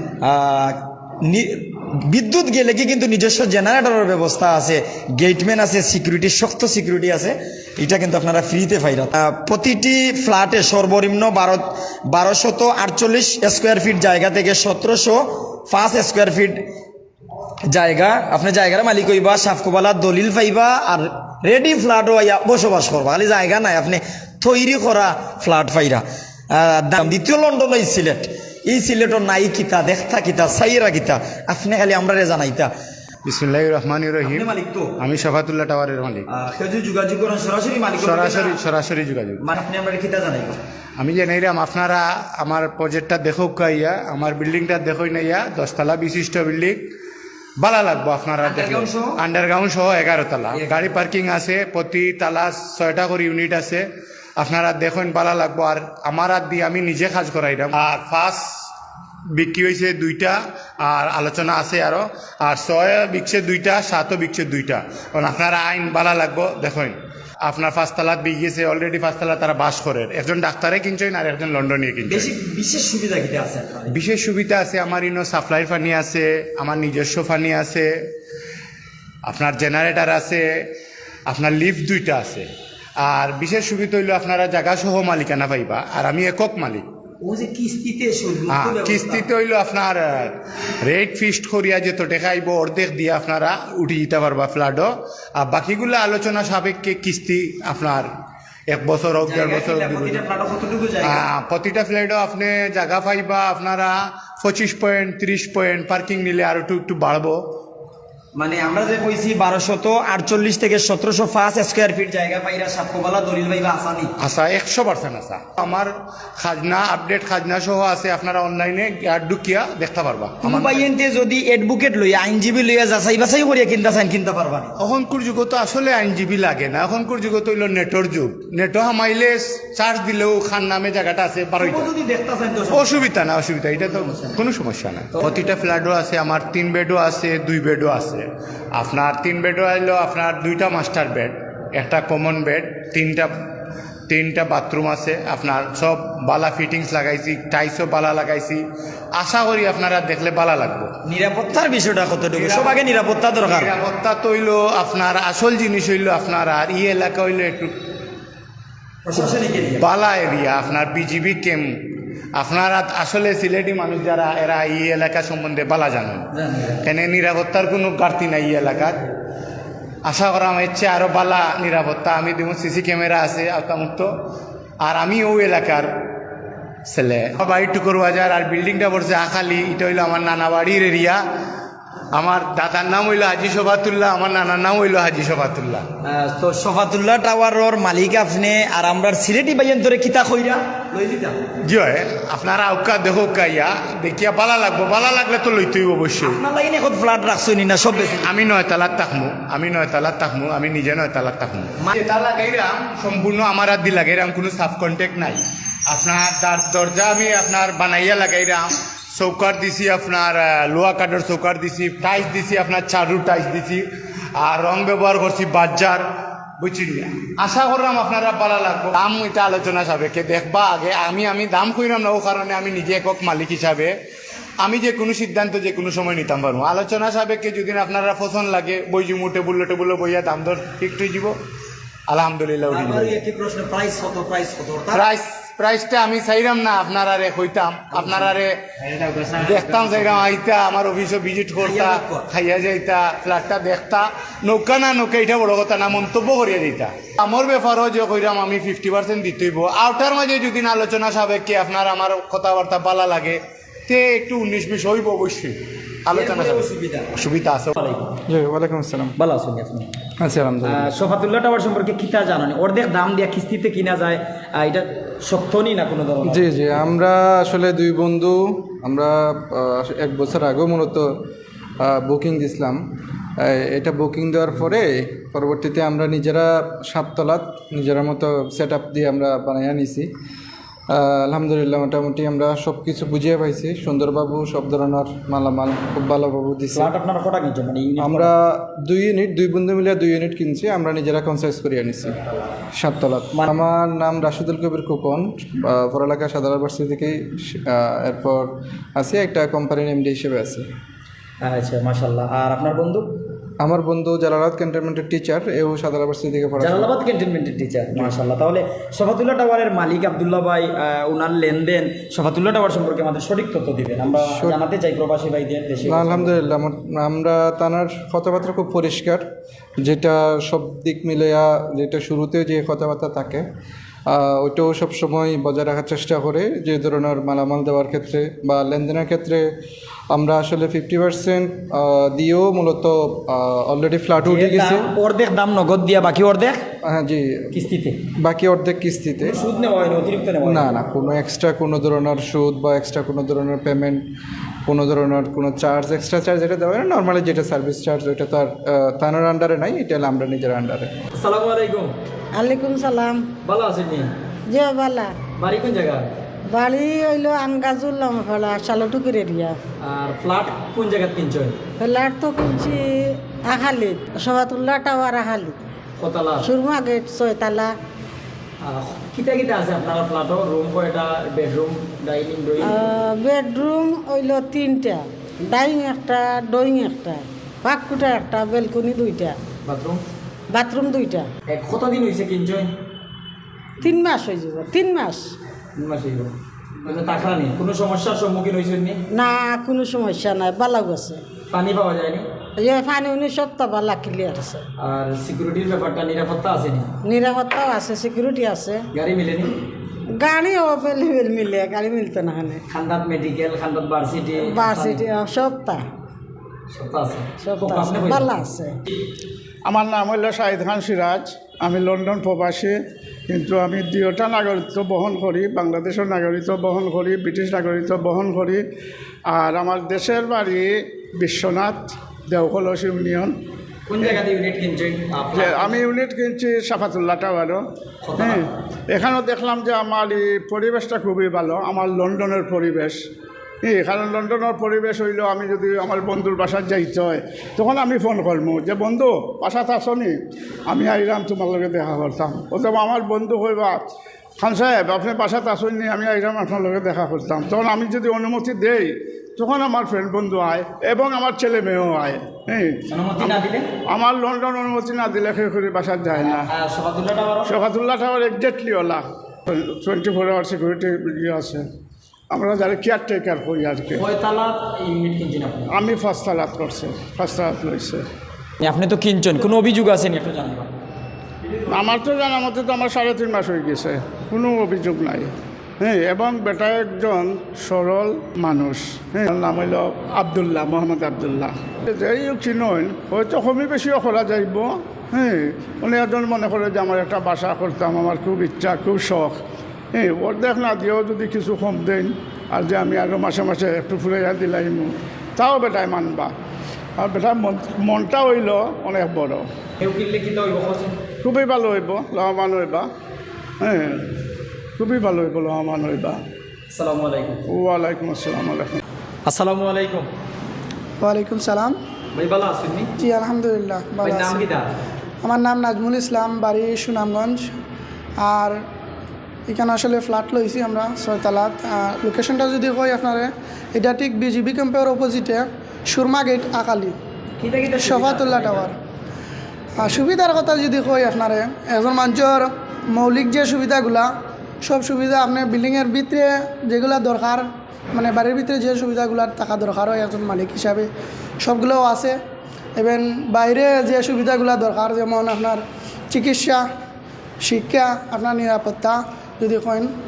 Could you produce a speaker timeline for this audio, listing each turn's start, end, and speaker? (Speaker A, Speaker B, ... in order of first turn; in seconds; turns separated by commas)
Speaker A: 0.2-16.6, Speaker A: 17.6-32.7, Speaker B: 33.2-36.2, Speaker A: 34.2-34.9, Speaker A: 36.3-38.6, Speaker B: 38.0-39.4, Speaker A: 39.4-40.6, Speaker B: 41.0-46.8, Speaker B: 47.6-53.8, Speaker A: 48.4-49.1, Speaker A: 50.5-50.9, Speaker B: 54.4-58.6, Speaker B: 59.4-72.3, Speaker A: 72.0-73.9, Speaker B: 73.9-77.9, Speaker B: 79.2-80.6, Speaker B: 81.3-82.5, Speaker B: 83.0-86.8, Speaker A: 87.2-89.2, Speaker B: 88.5-98.1, Speaker B: 98.7-100.2, Speaker A: 99.2-101.2, Speaker B: 101.0-107.4, Speaker A: 108.3-114.1, Speaker B: 114.2-120.9, Speaker A: 120.4-124.7, Speaker B: 124.8-131.9, Speaker A: 131.6-133.0, Speaker B: 132.7-143.3, Speaker A: 133.8-134.4, Speaker B: 144.1-148.6, Speaker B: 149.2-150.9, Speaker A: 151.1-153.7, Speaker B: 152.3-152.7, Speaker B: 153.4-157.7, Speaker A: 159.0-159.8, Speaker B: 159.8-161.7, Speaker B: 162.3-166.3, Speaker A: 166.3-166.8, Speaker B: 166.8-169.0, Speaker B: 170.0-174.1, Speaker B: 174.8-175.9, Speaker B: 176.9-181.2, Speaker B: 182.1-185.8, Speaker A: 186.0-191.4, Speaker B: 191.7-196.4, Speaker A: 196.2-198.3, Speaker B: 197.9-213.8, Speaker B: 214.4-216.0, Speaker B: 216.6-223.9, Speaker B: 224.6-231.3, Speaker B: 232.1-233.2, Speaker A: 232.7-235.0, Speaker B: 234.9-238.6, Speaker A: 237.9-240.2, Speaker B: 239.4-258.0, Speaker A: 241.6-242.2, Speaker A: 256.1-257.1, Speaker C: 258.3-259.1, Speaker A: 259.2-259.9, Speaker C: 260.2-260.9, Speaker A: 260.6-266.4, Speaker C: 266.2-271.1, Speaker C: 271.8-272.8, Speaker C: 273.4-280.1, Speaker C: 280.9-286.9, Speaker A: 286.7-288.3, Speaker C: 288.0-292.2, Speaker C: 292.8-300.6, Speaker A: 301.4-303.1, Speaker C: 303.6-306.9, Speaker A: 306.6-316.3, Speaker C: 314.2-314.6, Speaker C: 315.8-319.3, Speaker C: 319.8-323.4, Speaker C: 324.1-329.5, Speaker C: 330.1-334.9, Speaker A: 334.2-336.6, Speaker C: 336.8-337.6, Speaker A: 337.5-338.0, Speaker C: 338.2-339.4, Speaker A: 339.2-340.9, Speaker C: 340.4-344.0, Speaker C: 344.6-350.9, Speaker A: 351.2-351.9, Speaker D: 352.3-353.3, Speaker A: 353.4-354.1, Speaker D: 354.5-355.1, Speaker A: 355.4-356.1, Speaker D: 356.5-359.6, Speaker A: 359.8-361.6, Speaker D: 361.8-365.6, Speaker A: 366.0-366.5, Speaker D: 366.4-367.8, Speaker A: 368.6-372.7, Speaker D: 372.6-379.4, Speaker A: 379.6-380.0, Speaker D: 380.5-381.3, Speaker A: 381.5-382.7, Speaker D: 383.8-385.3, Speaker A: 385.8-389.0, Speaker D: 389.1-391.2, Speaker A: 391.5-392.2, Speaker D: 392.6-394.6, Speaker A: 394.8-396.9, Speaker D: 397.0-398.9, Speaker A: 398.9-399.5, Speaker D: 400.1-402.6, Speaker A: 402.7-405.0, Speaker D: 404.4-405.9, Speaker A: 406.7-408.3, Speaker D: 407.4-408.8, Speaker E: 409.6-412.8, Speaker E: 413.3-418.6, Speaker E: 419.3-423.3, Speaker A: 423.9-425.8, Speaker E: 425.3-427.6, Speaker A: 428.0-428.5, Speaker E: 428.2-433.0, Speaker E: 433.6-440.1, Speaker E: 440.7-443.8, Speaker E: 444.4-456.5, Speaker A: 452.9-453.7, Speaker A: 456.1-457.5, Speaker E: 457.4-461.6, Speaker E: 462.3-464.1, Speaker A: 463.9-465.7, Speaker E: 465.7-468.0, Speaker A: 468.6-470.7, Speaker E: 471.7-489.4, Speaker E: 489.9-496.3, Speaker E: 497.0-499.4, Speaker A: 499.8-501.0, Speaker E: 501.2-502.9, Speaker E: 503.6-504.0, Speaker E: 504.8-506.2, Speaker A: 506.7-507.4, Speaker E: 507.5-508.8, Speaker A: 509.2-510.1, Speaker F: 511.0-511.7, Speaker A: 512.1-512.9, Speaker F: 513.0-514.5, Speaker A: 514.0-514.6, Speaker F: 515.2-517.5, Speaker F: 518.2-518.6, Speaker F: 519.5-527.0, Speaker A: 527.4-528.6, Speaker F: 527.7-528.7, Speaker F: 529.8-534.1, Speaker F: 534.6-540.9, Speaker F: 541.4-542.2, Speaker F: 542.8-546.6, Speaker F: 547.4-549.9